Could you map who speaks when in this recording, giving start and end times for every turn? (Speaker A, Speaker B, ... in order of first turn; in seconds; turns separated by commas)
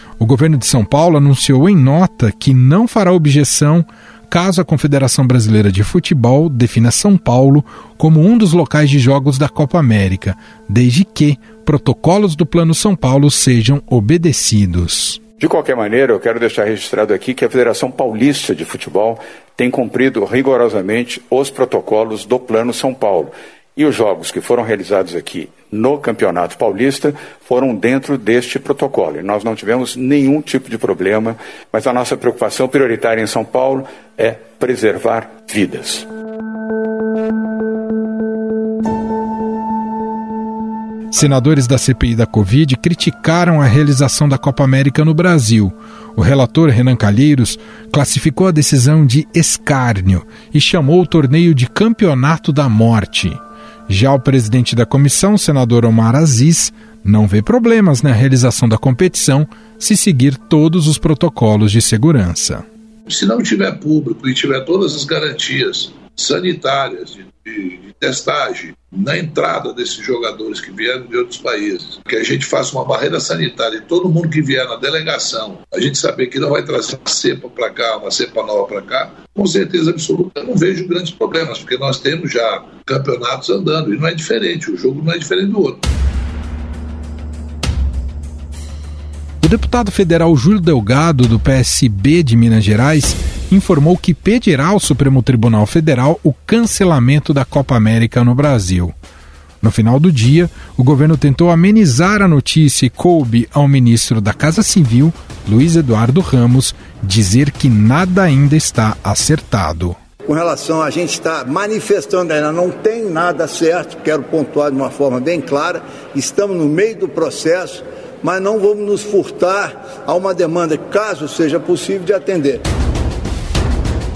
Speaker A: 0.2-15.2, Speaker B: 15.4-36.1, Speaker A: 41.1-62.6, Speaker C: 63.1-85.8, Speaker A: 89.4-98.9, Speaker A: 99.6-110.0, Speaker D: 110.3-117.8, Speaker D: 118.3-122.5